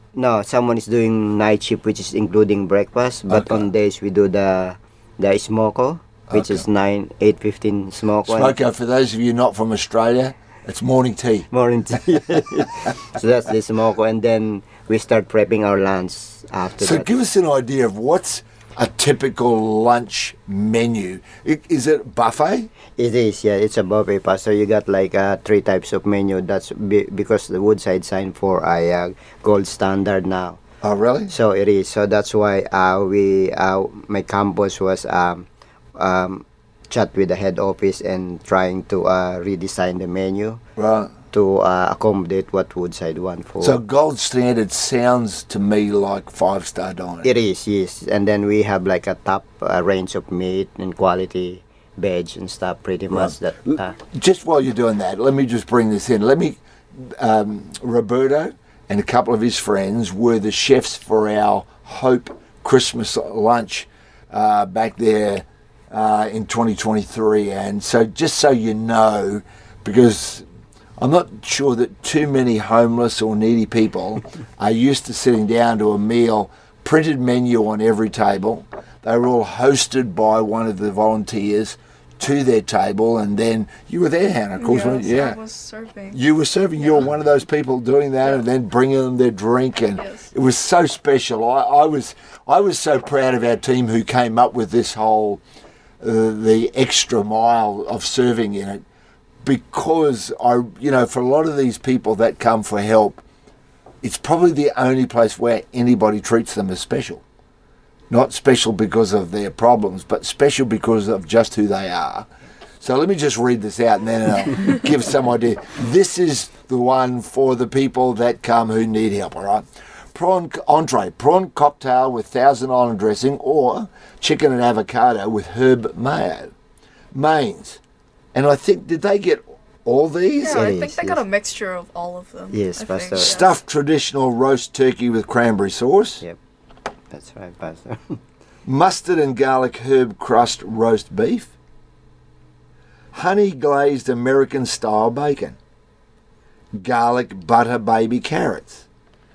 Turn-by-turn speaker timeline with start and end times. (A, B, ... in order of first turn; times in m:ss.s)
0:00.1-0:08.6 A
0:03.3-0:03.6 B
0:06.3-0:06.6 B
0:08.2-0:11.5 B
0:11.5-0:17.1 A
0:16.8-0:22.7 B
0:23.0-0:30.6 A
0:30.8-0:31.3 B
0:31.3-0:40.6 A
0:40.8-0:41.1 B
0:41.3-0:43.8 A
0:43.6-0:47.3 B
0:47.2-0:54.0 A
0:53.1-1:10.4 B
1:11.0-1:25.4 B
1:24.6-1:26.2 C
1:26.1-1:35.4 B
1:30.0-1:30.2 C
1:36.0-1:38.8 B
1:39.4-1:43.2 B
1:44.0-1:47.2 B
1:48.1-1:52.3 B
1:52.8-2:06.5 B
2:07.1-2:07.8 B
2:08.3-2:10.7 B
2:10.4-2:13.5 C
2:10.4-2:11.2 A
2:12.5-2:13.4 A
2:13.2-2:16.2 B
2:17.1-2:18.2 A
2:18.6-2:21.5 B
2:23.1-2:25.6 B
2:26.8-2:28.8 B